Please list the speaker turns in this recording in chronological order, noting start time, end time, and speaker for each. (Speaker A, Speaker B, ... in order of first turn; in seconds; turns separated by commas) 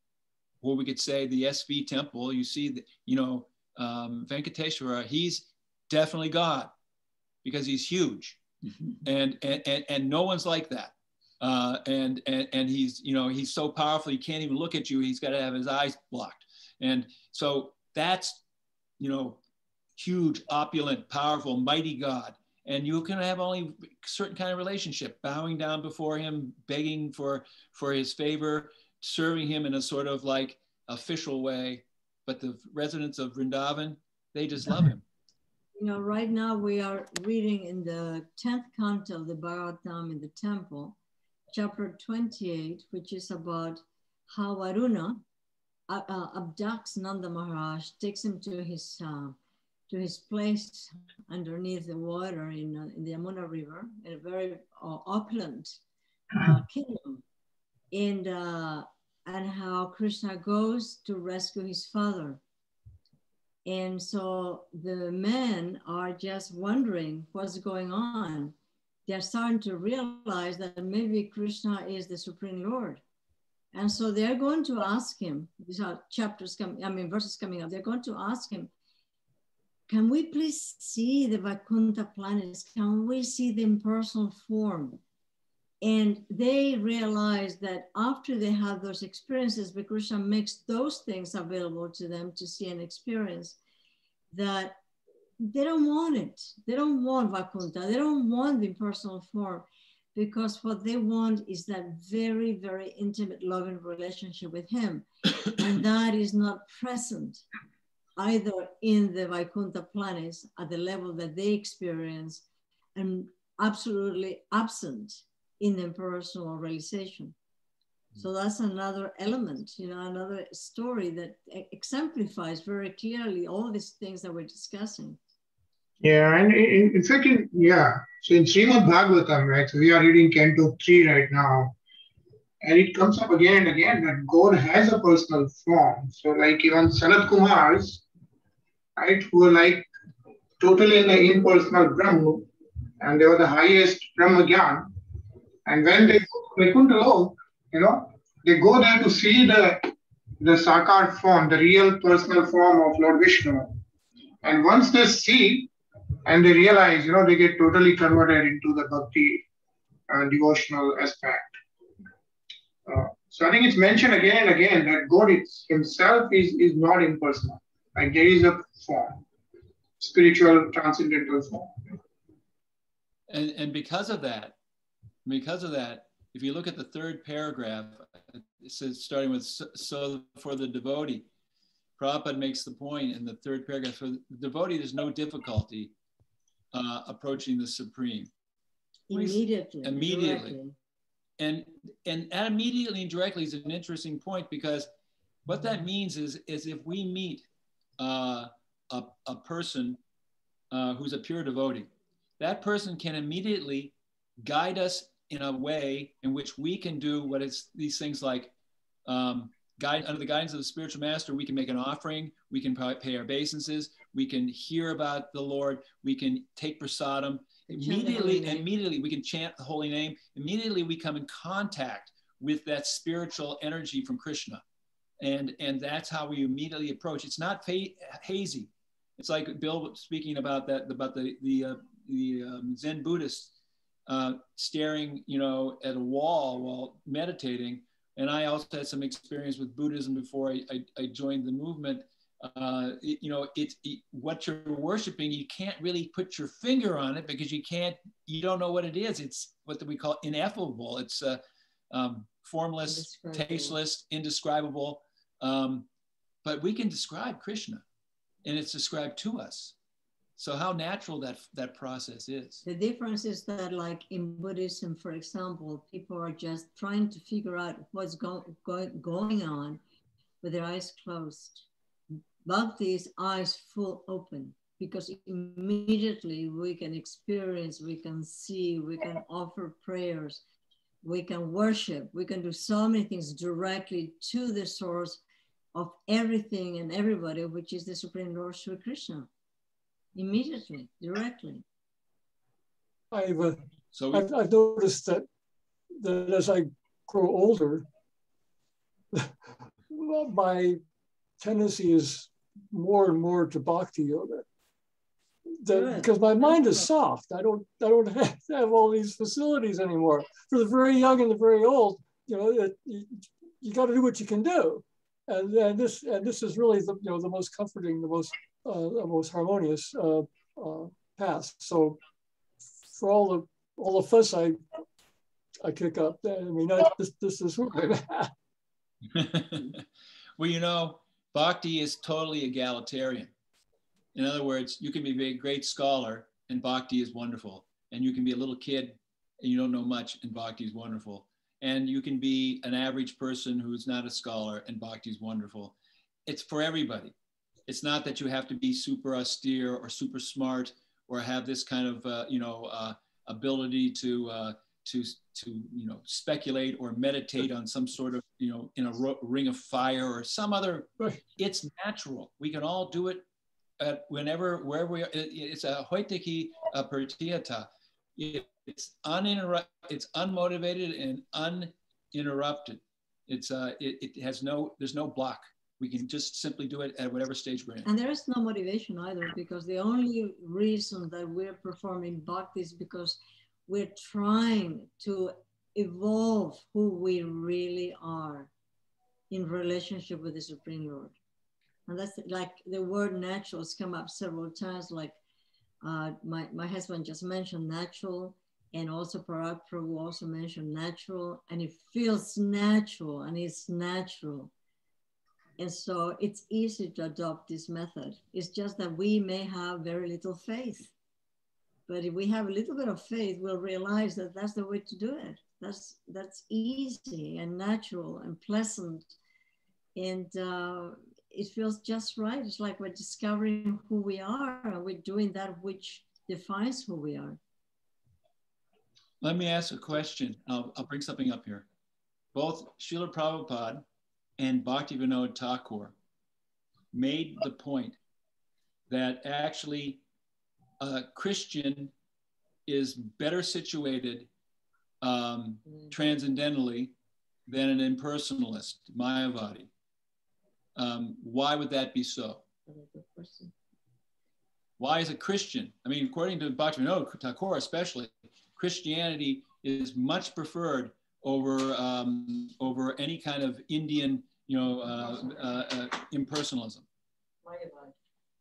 Speaker A: 0.6-6.7, Speaker A: 7.4-8.4, Speaker A: 9.0-18.4, Speaker A: 19.0-19.4, Speaker A: 19.9-35.0, Speaker B: 35.7-41.0, Speaker B: 41.5-45.2, Speaker B: 45.9-49.4, Speaker B: 49.9-55.8, Speaker B: 56.4-57.2, Speaker B: 57.9-62.4, Speaker B: 63.6-68.5, Speaker B: 69.1-73.0, Speaker B: 73.7-78.7, Speaker B: 79.9-85.0, Speaker B: 85.8-93.6, Speaker B: 94.3-94.8, Speaker B: 95.4-107.4, Speaker B: 108.2-112.4, Speaker B: 112.9-117.3, Speaker B: 118.2-125.2, Speaker C: 126.0-131.7, Speaker C: 132.6-138.0, Speaker C: 139.0-139.9, Speaker C: 140.6-142.5, Speaker C: 143.0-144.9, Speaker C: 145.7-153.8, Speaker C: 154.4-155.7, Speaker C: 156.2-159.4, Speaker C: 160.1-161.5, Speaker C: 162.9-169.2, Speaker C: 170.0-171.7, Speaker A: 173.3-174.6, Speaker A: 175.2-181.2, Speaker A: 182.0-185.9, Speaker A: 186.7-188.3, Speaker B: 189.1-190.7, Speaker A: 189.1-190.6, Speaker A: 191.4-194.9, Speaker A: 195.4-197.4, Speaker A: 198.0-200.0, Speaker A: 200.7-208.5, Speaker A: 209.1-224.6, Speaker B: 217.7-218.7, Speaker A: 225.2-233.5, Speaker A: 234.1-255.9, Speaker B: 252.9-253.8, Speaker A: 256.4-257.8, Speaker A: 258.4-259.7, Speaker A: 260.4-262.6, Speaker B: 262.6-269.8, Speaker B: 270.4-271.7, Speaker B: 272.4-280.4, Speaker B: 281.0-285.2, Speaker B: 285.7-289.3, Speaker B: 290.1-291.6, Speaker D: 293.1-293.6, Speaker A: 293.9-294.3, Speaker D: 294.1-295.2, Speaker D: 296.0-297.8, Speaker D: 299.9-300.8, Speaker D: 301.4-304.4, Speaker D: 305.6-322.0, Speaker B: 305.7-306.9, Speaker D: 322.9-324.6, Speaker D: 325.6-328.3, Speaker A: 329.1-329.8, Speaker A: 330.4-333.3, Speaker A: 334.1-345.7, Speaker A: 346.3-347.1, Speaker A: 347.7-363.2, Speaker A: 363.8-377.9, Speaker B: 377.8-388.5, Speaker B: 389.3-391.1, Speaker B: 391.9-395.2, Speaker B: 395.8-404.5, Speaker B: 405.6-410.9, Speaker B: 411.9-419.1, Speaker B: 419.9-427.4, Speaker A: 429.2-431.6, Speaker A: 432.3-433.8, Speaker A: 434.4-435.9, Speaker A: 436.9-438.0, Speaker A: 438.9-440.0, Speaker A: 440.8-441.9, Speaker A: 442.7-444.3, Speaker A: 445.0-446.9, Speaker B: 445.6-446.2, Speaker A: 447.5-449.7, Speaker A: 450.8-452.4, Speaker B: 452.6-453.5, Speaker A: 454.8-466.8, Speaker B: 464.9-465.6, Speaker B: 467.4-467.9